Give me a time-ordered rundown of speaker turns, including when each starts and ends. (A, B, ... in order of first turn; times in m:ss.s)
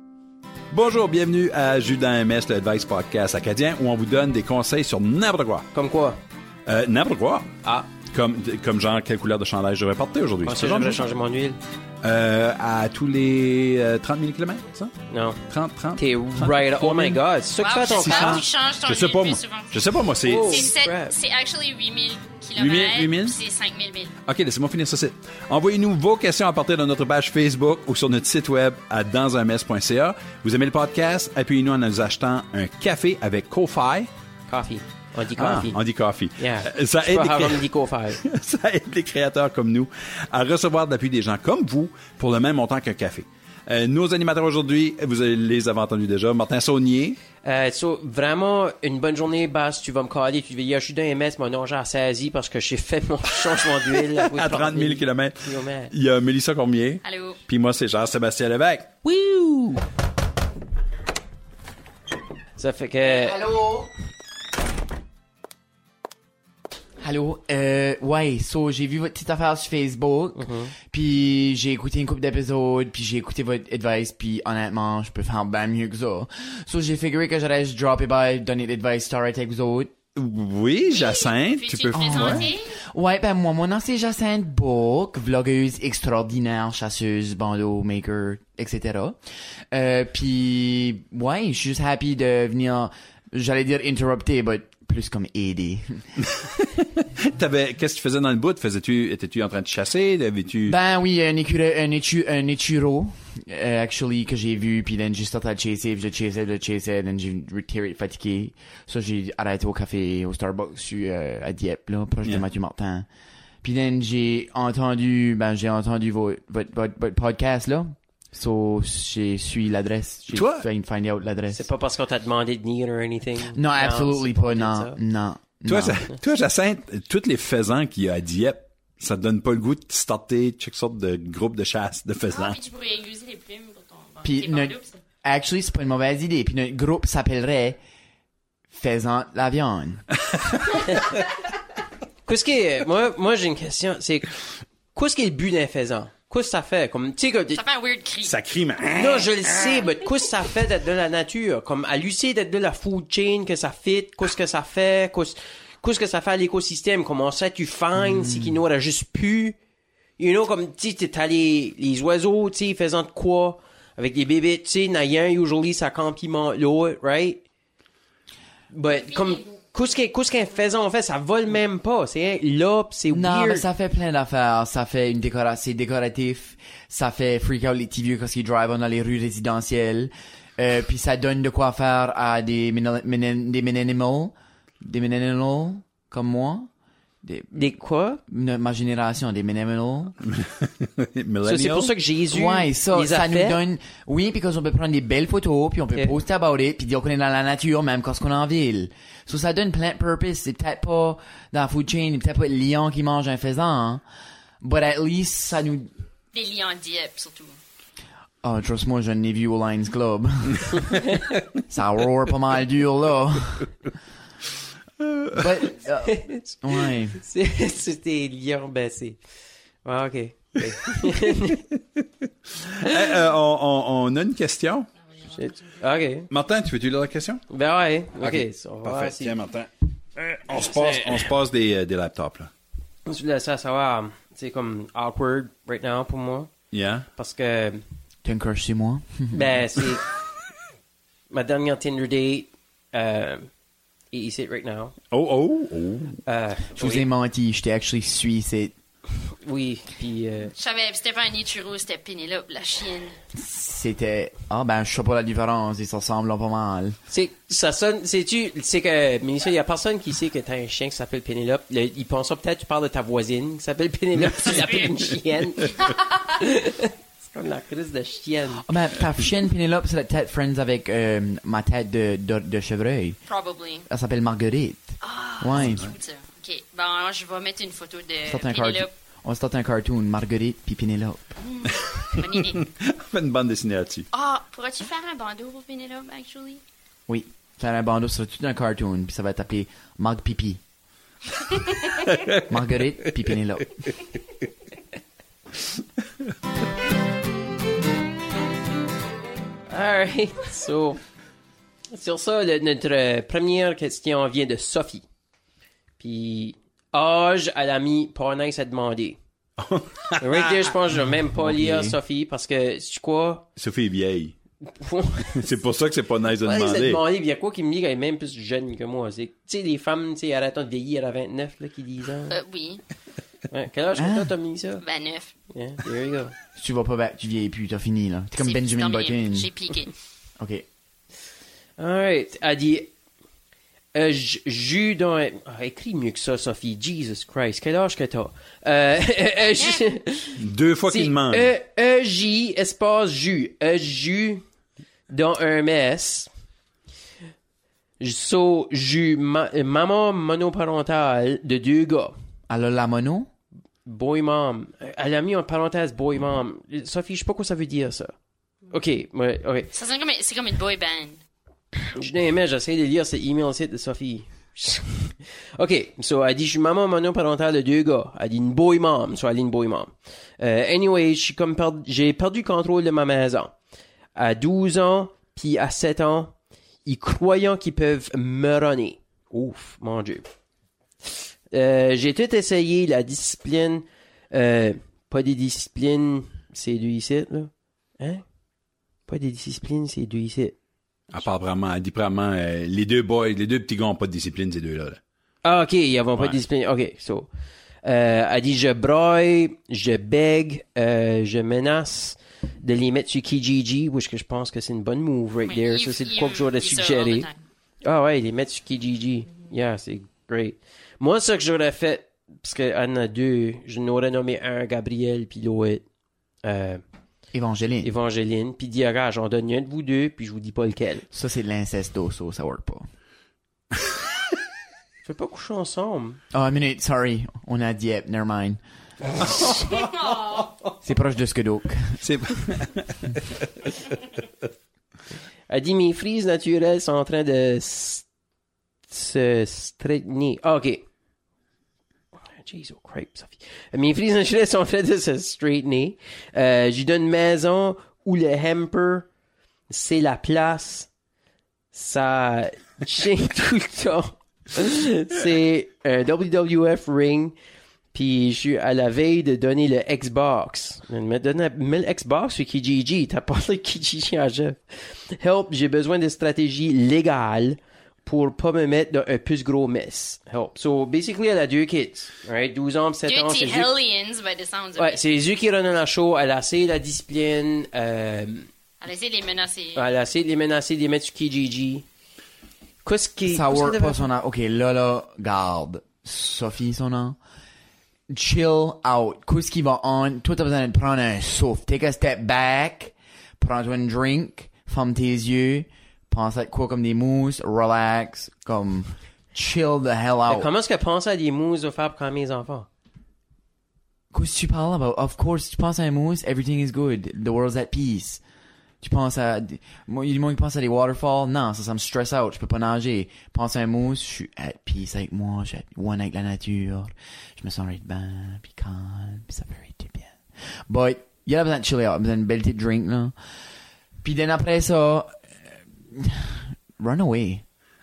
0:00.7-0:05.7 A
0:05.7-0:06.2 B
0:06.7-0:11.1 A
0:10.4-0:11.6 B
0:12.0-0:15.0 A
0:15.1-0:15.4 B
0:15.5-0:17.2 A
0:16.0-0:18.4 B
0:17.6-0:24.2 C
0:18.0-0:20.7 A
0:20.2-0:21.2 B
0:22.6-0:23.4 A
0:24.3-0:34.1 A
0:34.5-0:35.8 B
0:35.4-0:37.7 A
0:36.4-0:38.2 B
0:38.2-0:47.2 A
0:47.4-0:55.9 B
0:54.2-0:58.9 A
0:57.0-0:57.4 C
0:59.0-0:59.8 B
1:02.6-1:03.4 B
1:03.0-1:03.9 D
1:07.0-1:19.9 D
1:10.4-1:10.7 B
1:20.2-1:22.5 A
1:20.9-1:22.8 C
1:21.9-1:29.2 D
1:29.7-1:36.1 D
1:36.3-1:40.8 A
1:40.7-1:53.1 D
1:53.6-2:01.7 D
2:00.3-2:00.7 A
2:01.5-2:05.0 B
2:03.5-2:06.1 D
2:05.7-2:12.6 A
2:12.3-2:15.0 C
2:14.2-2:17.8 D
2:18.7-2:20.1 D
2:20.9-2:21.1 B
2:22.3-2:24.4 B
2:24.9-2:27.6 B
2:27.5-2:28.4 C
2:28.2-2:29.8 A
2:29.0-2:39.6 B
2:38.0-2:38.6 D
2:40.2-2:47.4 B
2:48.7-2:53.7 B
2:53.1-3:06.7 D
3:07.2-3:07.7 D
3:07.5-3:08.2 B
3:08.3-3:10.2 D
3:10.3-3:11.9 A
3:11.4-3:13.6 B
3:12.3-3:24.0 D
3:24.6-3:25.9 D
3:26.3-3:27.6 C
3:28.4-3:31.0 D
3:31.7-3:33.7 D
3:35.0-3:35.3 A
3:35.3-3:37.2 D
3:36.0-3:39.2 B
3:39.8-3:41.7 B
3:42.6-3:44.9 A
3:45.2-3:46.3 B
3:46.3-3:47.5 A
3:47.5-3:49.4 B
3:48.2-3:52.5 A
3:50.5-3:51.3 B
3:53.1-3:56.5 B
3:56.7-3:57.1 A
3:57.2-3:57.8 B
3:58.2-3:59.6 D
3:59.3-4:00.1 B
4:01.3-4:03.5 B
4:04.1-4:05.0 B
4:05.1-4:06.2 A
4:06.3-4:07.1 B
4:06.8-4:08.8 D
4:09.2-4:10.5 B
4:10.6-4:13.2 C
4:13.3-4:17.0 D
4:17.1-4:28.7 B
4:24.4-4:24.8 A
4:28.6-4:33.2 D
4:33.3-4:33.9 C
4:33.9-4:35.9 D
4:35.0-4:38.9 C
4:38.3-4:41.4 D
4:41.4-4:42.7 C
4:42.2-4:44.1 A
4:44.1-4:46.6 C
4:47.1-4:50.6 D
4:52.0-4:52.4 A
4:52.5-4:53.9 D
4:59.7-5:01.0 B
5:01.9-5:05.0 B
5:06.0-5:09.2 B
5:09.6-5:10.6 A
5:10.2-5:13.5 B
5:11.0-5:12.0 D
5:13.6-5:14.4 A
5:14.6-5:15.4 B
5:15.3-5:17.0 A
5:16.4-5:22.4 B
5:22.3-5:22.8 C
5:23.5-5:24.8 B
5:24.0-5:24.3 D
5:24.8-5:25.3 C
5:25.5-5:26.4 B
5:26.6-5:29.5 D
5:28.4-5:29.9 C
5:30.4-5:30.7 D
5:31.8-5:32.9 B
5:33.9-5:44.4 B
5:39.5-5:39.9 C
5:40.4-5:41.5 A
5:45.1-5:46.3 B
5:48.0-5:52.1 B
5:52.5-5:53.3 D
5:53.9-5:58.2 B
5:58.7-5:59.7 B
5:59.7-6:01.2 C
6:01.8-6:13.6 B
6:14.2-6:16.3 B
6:16.8-6:20.3 B
6:21.1-6:28.2 B
6:29.1-6:30.6 B
6:31.1-6:35.0 A
6:35.4-6:37.3 B
6:37.8-6:47.3 B
6:45.5-6:47.4 C
6:47.8-6:55.8 B
6:56.4-6:56.8 B
6:57.3-6:57.9 D
6:57.8-7:01.1 B
7:01.1-7:02.9 D
7:05.0-7:06.2 B
7:06.3-7:08.6 D
7:09.2-7:10.4 A
7:09.8-7:10.2 C
7:10.8-7:12.0 D
7:12.0-7:13.7 A
7:15.5-7:18.1 B
7:18.9-7:20.8 B
7:22.2-7:29.1 B
7:29.7-7:30.9 B
7:31.7-7:37.4 B
7:37.9-7:53.7 B
7:53.1-7:55.0 C
7:54.8-7:58.5 B
7:58.8-7:59.9 C
7:59.8-8:01.8 B
8:02.8-8:04.1 B
8:03.3-8:07.2 D
8:08.1-8:20.5 D
8:20.3-8:22.7 B
8:24.1-8:28.2 D
8:28.8-8:43.2 D
8:44.0-8:47.4 D